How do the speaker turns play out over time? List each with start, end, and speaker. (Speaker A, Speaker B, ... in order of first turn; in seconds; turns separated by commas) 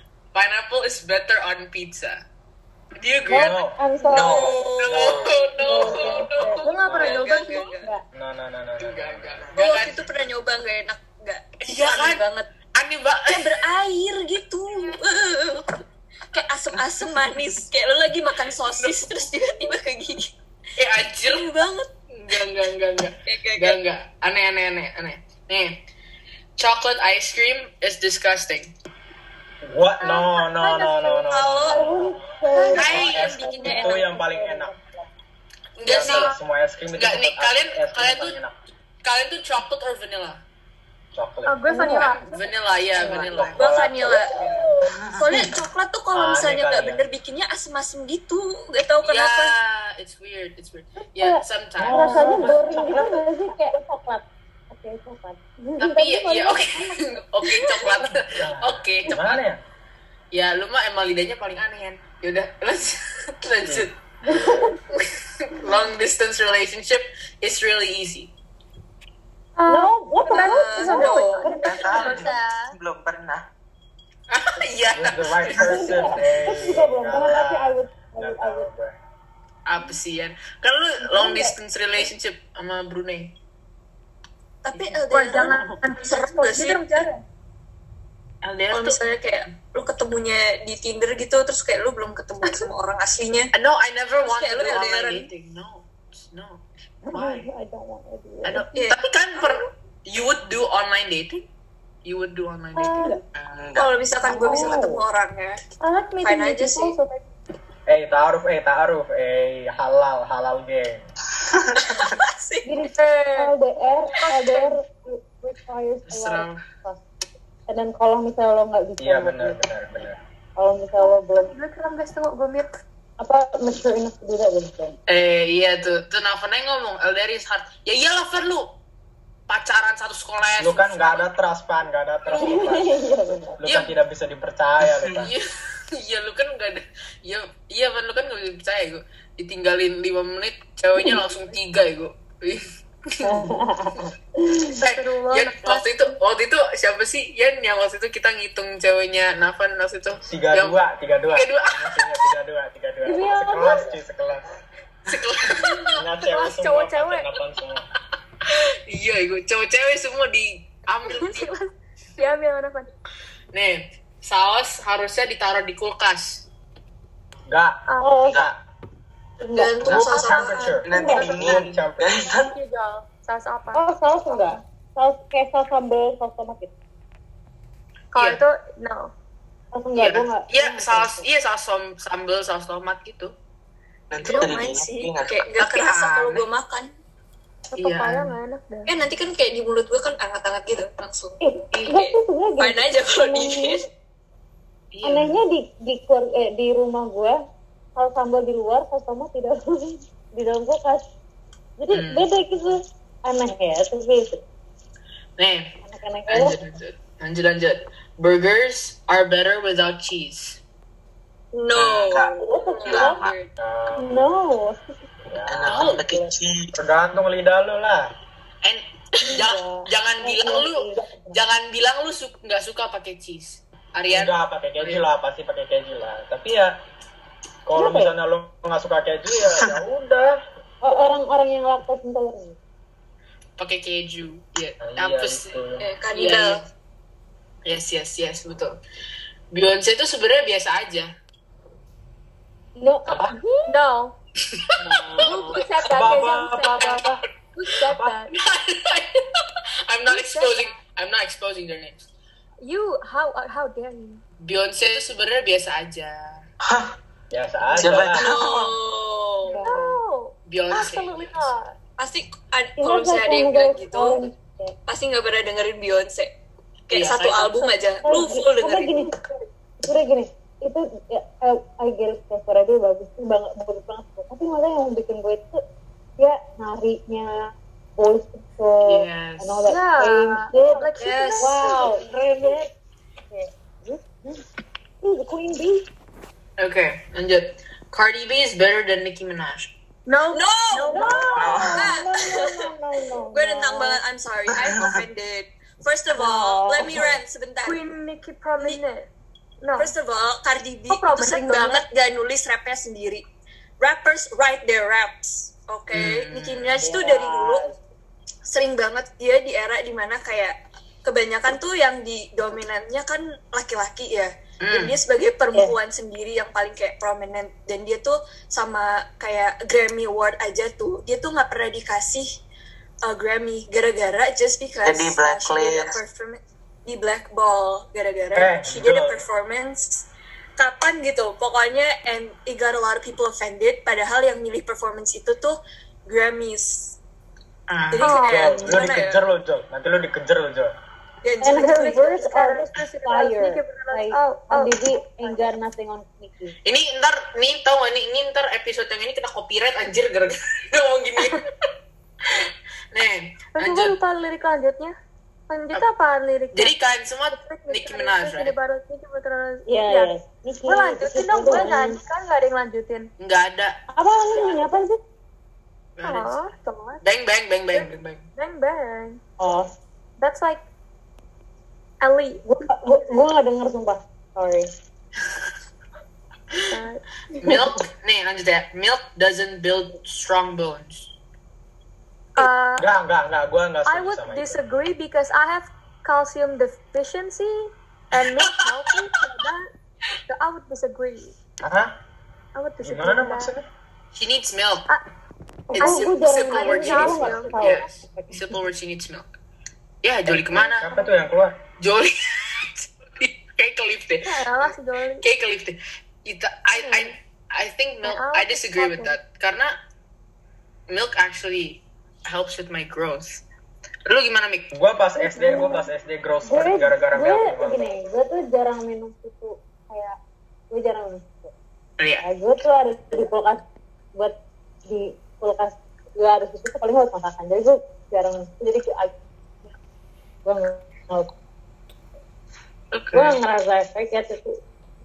Speaker A: 0.3-2.2, Speaker A: 3.0-3.6, Speaker B: 3.3-4.6, Speaker C: 3.3-5.3, Speaker D: 4.1-5.5, Speaker A: 4.7-7.7, Speaker B: 5.5-8.0, Speaker C: 5.9-6.2, Speaker E: 6.6-7.5, Speaker C: 6.8-7.2, Speaker D: 7.0-7.9, Speaker C: 8.1-9.5, Speaker A: 8.8-10.0, Speaker D: 9.6-12.5, Speaker A: 11.7-12.2, Speaker A: 12.8-13.6, Speaker D: 13.3-15.7, Speaker D: 16.3-20.3, Speaker A: 18.8-19.1, Speaker A: 20.8-21.6, Speaker D: 21.3-21.9, Speaker A: 22.1-25.8, Speaker D: 23.3-23.8, Speaker A: 26.6-28.7, Speaker C: 29.6-34.7, Speaker E: 30.0-31.3, Speaker D: 31.3-31.8, Speaker B: 31.7-34.8, Speaker E: 32.5-32.8, Speaker D: 32.5-34.0, Speaker A: 32.7-33.4, Speaker A: 35.8-36.3, Speaker C: 35.8-38.5, Speaker E: 35.9-36.4, Speaker A: 37.0-38.4, Speaker A: 39.0-40.4, Speaker C: 41.1-41.6, Speaker E: 41.5-42.5, Speaker B: 41.7-42.1, Speaker A: 41.9-43.8, Speaker C: 43.0-44.2, Speaker D: 43.6-44.6, Speaker B: 44.5-44.7, Speaker D: 45.2-49.5, Speaker C: 46.1-47.1, Speaker A: 49.0-52.2, Speaker B: 51.1-57.1, Speaker C: 51.8-53.3, Speaker E: 52.2-52.5, Speaker A: 55.8-59.5, Speaker C: 58.3-59.6, Speaker A: 60.3-64.0, Speaker B: 64.3-64.8, Speaker A: 64.9-68.3, Speaker E: 69.6-72.7, Speaker B: 69.7-72.2, Speaker D: 70.3-71.7, Speaker F: 71.6-73.5, Speaker A: 74.3-76.0, Speaker C: 74.9-79.0, Speaker B: 75.6-78.7, Speaker A: 79.7-83.3, Speaker B: 81.0-81.5, Speaker D: 84.7-87.1, Speaker A: 84.7-85.6, Speaker E: 85.1-87.2, Speaker A: 88.4-89.0, Speaker D: 88.7-93.5, Speaker A: 93.5-97.5, Speaker D: 94.2-95.3, Speaker B: 97.1-98.7, Speaker A: 98.5-101.5, Speaker D: 98.7-99.0, Speaker A: 102.1-103.2, Speaker E: 102.8-103.2, Speaker F: 103.4-104.0, Speaker D: 103.8-105.6, Speaker B: 104.3-105.0, Speaker E: 105.8-107.3, Speaker D: 106.2-107.0, Speaker C: 107.9-111.0, Speaker D: 111.9-112.9, Speaker B: 112.7-117.0, Speaker E: 113.0-113.5, Speaker E: 114.2-114.8, Speaker A: 116.1-116.6, Speaker B: 117.7-119.6, Speaker C: 119.0-120.2, Speaker B: 120.6-121.5, Speaker E: 121.0-122.7, Speaker B: 123.2-125.0, Speaker A: 125.1-128.7, Speaker A: 129.5-131.3, Speaker C: 130.6-133.0, Speaker B: 132.3-133.6, Speaker C: 133.6-135.3, Speaker A: 133.7-133.9, Speaker F: 134.8-135.3, Speaker A: 135.2-143.5, Speaker B: 141.0-141.2, Speaker B: 143.2-144.8, Speaker A: 144.8-150.8, Speaker E: 144.8-146.1, Speaker C: 150.2-154.4, Speaker A: 151.3-152.2, Speaker B: 153.0-154.0, Speaker A: 155.1-156.0, Speaker C: 155.9-157.9, Speaker E: 156.2-157.3, Speaker A: 158.5-161.5, Speaker E: 161.1-162.9, Speaker A: 163.5-166.4, Speaker C: 167.5-168.6, Speaker E: 167.9-168.2, Speaker B: 168.0-168.4, Speaker F: 168.3-168.5, Speaker B: 169.4-169.8, Speaker D: 169.5-170.8, Speaker F: 169.8-170.2, Speaker E: 169.9-170.8, Speaker C: 170.2-172.3, Speaker F: 170.8-172.5, Speaker B: 170.9-171.5, Speaker E: 172.2-174.5, Speaker B: 173.7-176.7, Speaker E: 178.1-179.1, Speaker A: 178.2-178.4, Speaker B: 179.7-181.3, Speaker A: 179.9-183.3, Speaker F: 184.1-185.4, Speaker D: 184.2-186.9, Speaker A: 185.6-186.4, Speaker E: 187.7-188.9, Speaker A: 187.8-188.3, Speaker D: 188.9-193.8, Speaker B: 191.4-193.8, Speaker A: 194.9-195.4, Speaker B: 195.0-197.4, Speaker B: 198.0-201.1, Speaker B: 201.8-204.4, Speaker A: 201.9-202.3, Speaker A: 205.4-210.6, Speaker B: 205.8-206.6, Speaker D: 211.5-213.5, Speaker F: 211.8-213.3, Speaker B: 212.4-213.2, Speaker C: 213.6-214.3, Speaker B: 213.9-214.8, Speaker C: 215.3-216.0, Speaker F: 215.5-216.8, Speaker A: 215.7-216.0, Speaker B: 215.9-216.3, Speaker C: 216.8-218.1, Speaker A: 218.6-225.0, Speaker B: 219.2-221.4, Speaker C: 224.1-226.8, Speaker C: 227.7-230.4, Speaker B: 227.8-228.1, Speaker B: 230.8-232.6, Speaker A: 233.6-235.6, Speaker C: 234.8-235.8, Speaker D: 235.8-236.6, Speaker A: 236.1-236.6, Speaker A: 237.7-238.8, Speaker A: 239.5-241.1, Speaker B: 242.8-243.8, Speaker F: 243.1-243.3, Speaker E: 243.7-244.2, Speaker A: 244.5-245.7, Speaker B: 244.8-245.4, Speaker E: 245.2-248.3, Speaker C: 245.8-247.2, Speaker C: 247.9-248.2, Speaker A: 248.3-249.2, Speaker A: 249.9-252.0, Speaker E: 250.1-250.8, Speaker E: 252.6-254.2, Speaker A: 254.4-256.4, Speaker F: 256.6-256.9, Speaker C: 257.3-258.2, Speaker F: 257.8-258.8, Speaker D: 258.1-259.7, Speaker B: 259.5-259.9, Speaker E: 259.5-261.7, Speaker A: 260.5-261.5, Speaker D: 262.0-264.2, Speaker B: 262.8-264.8, Speaker D: 264.9-266.3, Speaker D: 266.9-269.1, Speaker A: 266.9-267.8, Speaker B: 268.0-269.2, Speaker B: 269.8-275.6, Speaker B: 276.2-282.7, Speaker A: 278.9-279.6, Speaker E: 279.7-281.9, Speaker A: 281.1-281.7, Speaker B: 283.3-284.4, Speaker B: 285.0-285.9, Speaker A: 286.6-289.7, Speaker E: 290.1-291.6, Speaker D: 290.3-292.7, Speaker B: 290.9-294.0, Speaker F: 291.4-291.9, Speaker D: 293.3-297.8, Speaker F: 294.5-295.0, Speaker B: 296.1-297.2, Speaker E: 297.6-299.1, Speaker E: 299.6-299.9, Speaker D: 299.8-303.2, Speaker E: 300.9-301.9, Speaker D: 303.8-307.6, Speaker A: 305.9-306.8, Speaker B: 306.8-307.7, Speaker D: 308.5-322.3, Speaker A: 314.6-315.0, Speaker D: 323.1-330.1, Speaker F: 324.8-326.0, Speaker C: 328.3-329.2, Speaker D: 330.6-337.0, Speaker A: 337.7-338.1, Speaker D: 337.9-339.2, Speaker E: 338.0-338.6, Speaker C: 338.3-340.7, Speaker D: 341.2-342.2, Speaker B: 341.4-346.6, Speaker E: 341.7-345.5, Speaker A: 346.6-351.4, Speaker A: 352.3-354.0, Speaker E: 353.6-354.9, Speaker E: 355.5-356.8, Speaker A: 356.5-358.6, Speaker E: 357.3-360.1, Speaker B: 359.7-362.0, Speaker E: 360.7-363.1, Speaker A: 363.2-363.8, Speaker B: 363.9-365.0, Speaker A: 366.0-366.4, Speaker E: 366.0-367.0, Speaker A: 367.0-368.2, Speaker E: 367.7-369.2, Speaker B: 369.4-369.7, Speaker E: 370.2-370.6, Speaker E: 372.0-372.4, Speaker B: 372.4-374.7, Speaker E: 376.7-377.0, Speaker B: 377.4-377.8, Speaker A: 377.4-381.1, Speaker E: 382.4-382.9, Speaker C: 382.8-384.6, Speaker E: 383.9-389.7, Speaker E: 390.3-391.4, Speaker C: 391.6-391.9, Speaker E: 392.6-393.5, Speaker C: 392.8-393.7, Speaker A: 394.1-394.9, Speaker B: 395.7-398.5, Speaker A: 395.7-399.4, Speaker E: 395.8-397.6, Speaker A: 400.0-400.9, Speaker C: 400.3-401.6, Speaker E: 400.8-401.1, Speaker A: 401.8-409.7, Speaker E: 404.2-405.2, Speaker E: 406.7-407.1, Speaker E: 408.0-409.2, Speaker A: 410.9-413.4, Speaker A: 414.1-414.7, Speaker C: 414.7-417.8, Speaker E: 415.3-415.8, Speaker B: 415.3-415.8, Speaker B: 416.4-420.2, Speaker B: 420.7-421.5, Speaker A: 422.0-422.3, Speaker B: 422.2-423.6, Speaker B: 424.2-429.1, Speaker B: 430.4-431.3, Speaker A: 432.9-433.4, Speaker B: 433.1-434.6